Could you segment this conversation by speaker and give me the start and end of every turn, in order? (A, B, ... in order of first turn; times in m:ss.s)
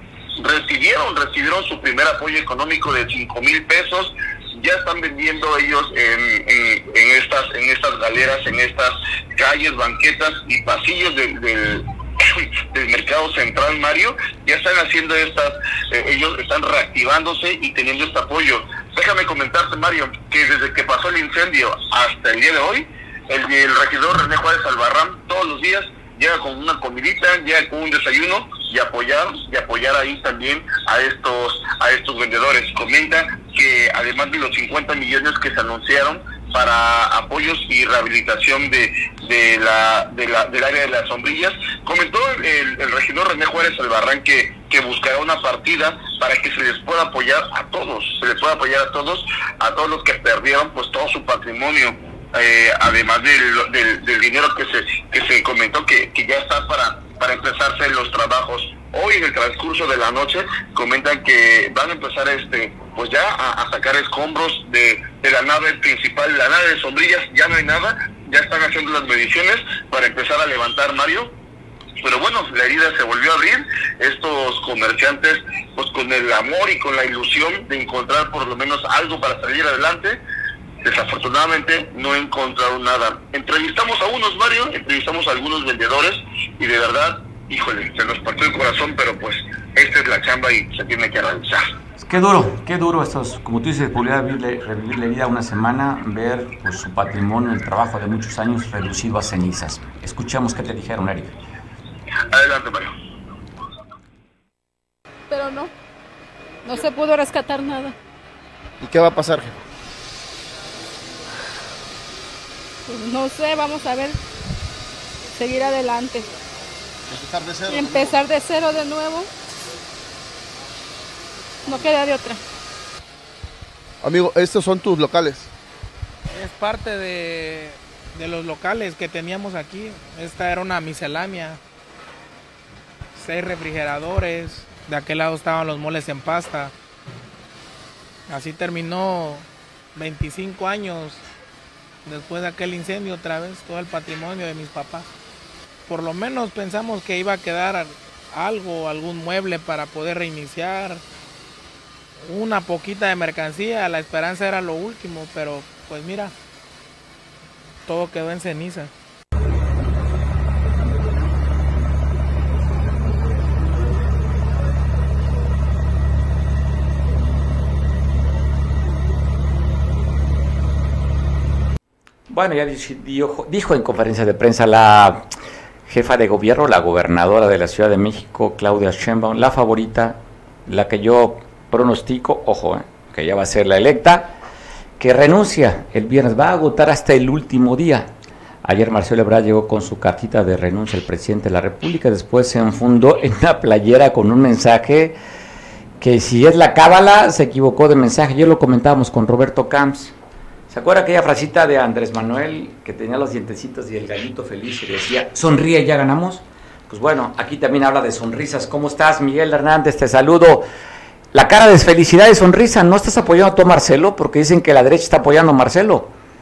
0:00.4-1:11.3 A
1:12.0-1:20.2 A
1:20.8-1:31.7 A
1:32.0-1:41.4 B
1:42.3-1:42.9 A
1:45.3-1:45.7 C
1:46.6-1:47.9 C
1:48.8-1:49.6 D
1:52.9-1:54.2 C
1:55.3-1:56.3 C
1:57.1-1:58.2 D
1:57.7-1:59.3 C
2:01.7-2:02.4 C
2:04.0-2:05.5 D
2:06.3-2:11.6 E
2:13.1-2:16.7 E
2:18.3-2:21.2 E
2:22.0-2:25.1 E
2:25.9-2:31.0 E
2:32.2-2:36.3 E
2:37.8-2:38.9 E
2:52.3-2:55.2 B
2:55.9-3:04.4 B
3:05.0-3:08.1 B
3:08.6-3:15.2 B
3:16.0-3:20.2 B
3:20.7-3:30.7 B
3:31.3-3:36.1 B